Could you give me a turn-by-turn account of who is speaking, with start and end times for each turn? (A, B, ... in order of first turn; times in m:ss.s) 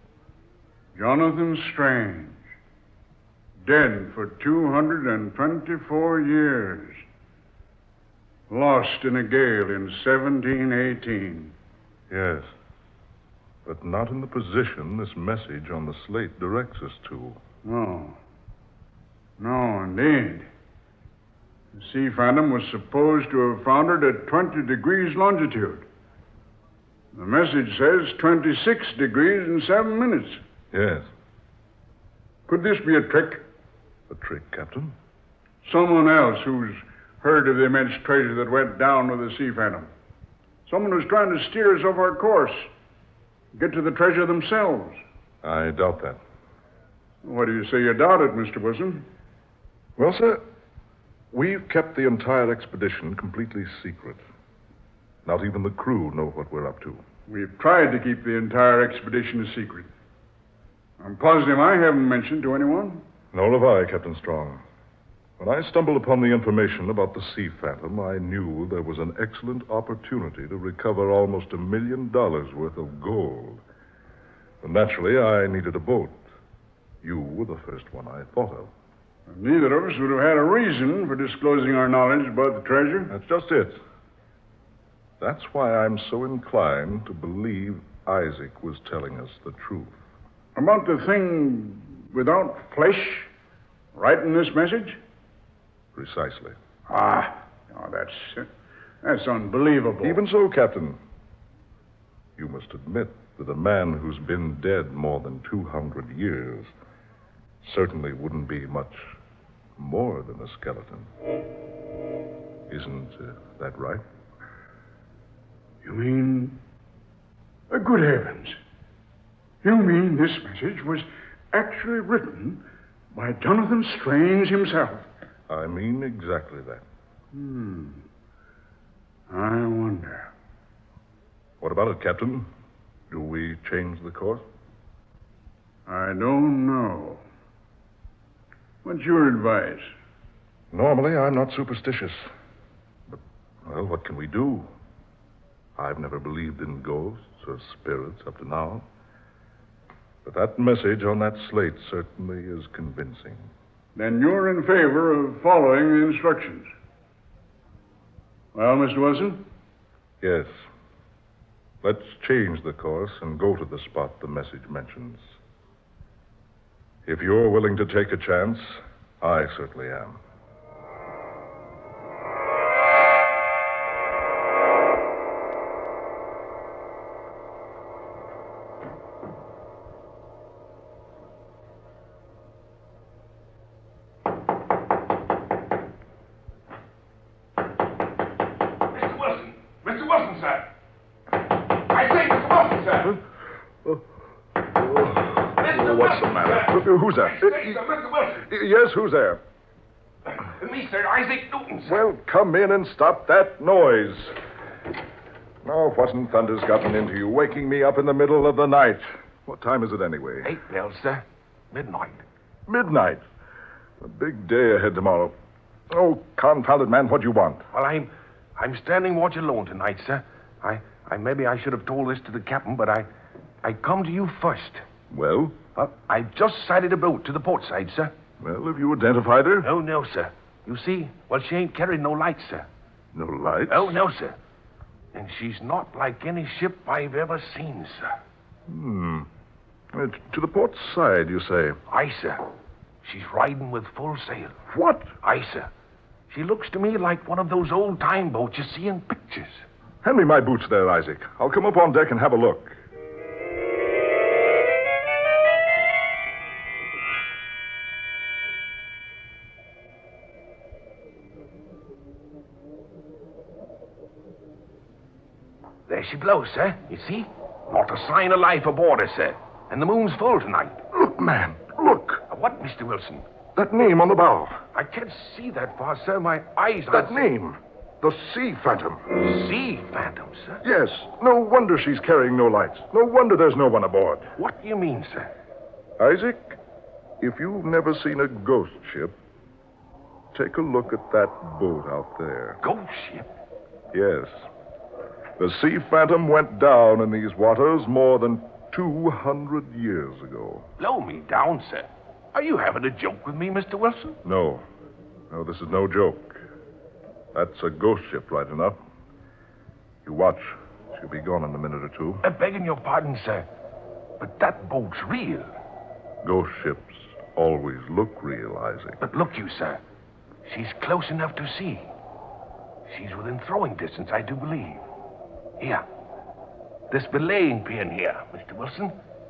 0:01.0-0:02.4 A
0:03.6-0:07.0 A
0:08.5-0:11.5 A
0:12.1-0:12.5 B
0:13.6-0:17.4 B
0:17.6-0:18.2 A
0:19.4-0:20.5 A
0:21.7-0:25.9 A
0:27.1-0:30.4 A
0:30.7-0:31.1 B
0:32.5-0:33.4 A
0:34.1-0:35.0 B
0:35.6-0:39.9 A
0:40.7-0:42.7 A
0:43.5-0:45.0 A
0:45.4-0:46.2 B
0:47.2-0:49.1 A
0:50.0-0:50.4 B
0:51.3-0:54.2 B
0:55.2-0:57.0 B
0:57.3-0:59.9 A
1:01.0-1:03.0 A
1:03.3-1:04.6 B
1:05.4-1:13.6 B
1:14.6-1:16.2 B
1:17.0-1:18.7 B
1:19.3-1:23.1 A
1:23.1-1:23.8 B
1:25.2-1:30.0 B
1:30.6-1:33.3 A
1:33.9-1:35.0 A
1:36.0-1:36.6 B
1:36.9-1:38.5 A
1:39.0-1:40.2 A
1:40.0-1:41.0 B
1:42.4-1:46.7 B
1:47.6-1:49.1 B
1:49.8-1:51.1 B
1:52.7-1:54.0 B
1:55.8-1:56.6 A
1:57.7-1:58.6 A
1:59.6-2:05.1 A
2:05.5-2:06.8 B
2:07.3-2:08.0 A
2:09.3-2:10.3 A
2:11.6-2:12.5 B
2:13.1-2:14.4 B
2:15.9-2:17.2 A
2:18.8-2:19.9 A
2:20.7-2:22.3 B
2:23.1-2:24.7 B
2:25.8-2:28.8 B
2:30.2-2:33.5 B
2:34.0-2:36.7 A
2:38.5-2:39.4 A
2:40.2-2:40.5 B
2:41.8-2:45.2 B
2:47.1-2:50.2 B
3:08.9-3:10.7 C
3:11.9-3:13.2 C
3:14.6-3:17.8 B
3:15.6-3:18.5 C
3:18.4-3:19.4 B
3:20.3-3:22.0 C
3:21.9-3:24.3 B
3:25.6-3:30.5 B
3:30.4-3:32.2 C
3:32.7-3:33.2 B
3:34.0-3:35.3 B
3:35.9-3:37.6 B
3:37.7-3:43.1 C
3:43.6-3:44.8 C
3:45.1-3:45.6 B
3:45.8-3:48.1 C
3:48.4-3:49.7 B
3:49.6-3:52.7 C
3:53.1-3:54.0 B
3:53.7-3:54.4 C
3:55.1-3:58.1 C
3:58.7-3:59.3 B
3:59.9-4:01.8 B
4:01.9-4:02.4 C
4:03.0-4:04.6 C
4:04.7-4:05.1 B
4:05.2-4:05.7 C
4:06.3-4:09.6 C
4:10.0-4:12.8 B
4:25.9-4:30.8 C
4:30.9-4:32.2 B
4:32.3-4:33.2 C
4:33.6-4:34.6 B
4:34.7-4:37.2 C
4:36.9-4:39.2 B
4:39.2-4:40.6 C
4:40.6-4:44.3 B
4:44.4-4:45.3 C
4:46.0-4:46.6 B
4:47.2-4:49.2 B
4:50.3-4:52.6 B
4:52.6-4:53.3 C
4:53.9-4:54.3 B
4:55.4-5:00.7 B
5:00.8-5:04.2 C
5:04.2-5:04.6 B
5:05.3-5:06.4 B
5:07.3-5:08.8 B
5:10.0-5:12.2 B
5:12.2-5:13.4 C
5:14.2-5:15.5 C
5:16.2-5:19.0 B
5:19.0-5:19.8 C
5:20.4-5:21.9 C
5:22.9-5:24.8 C
5:26.9-5:29.0 C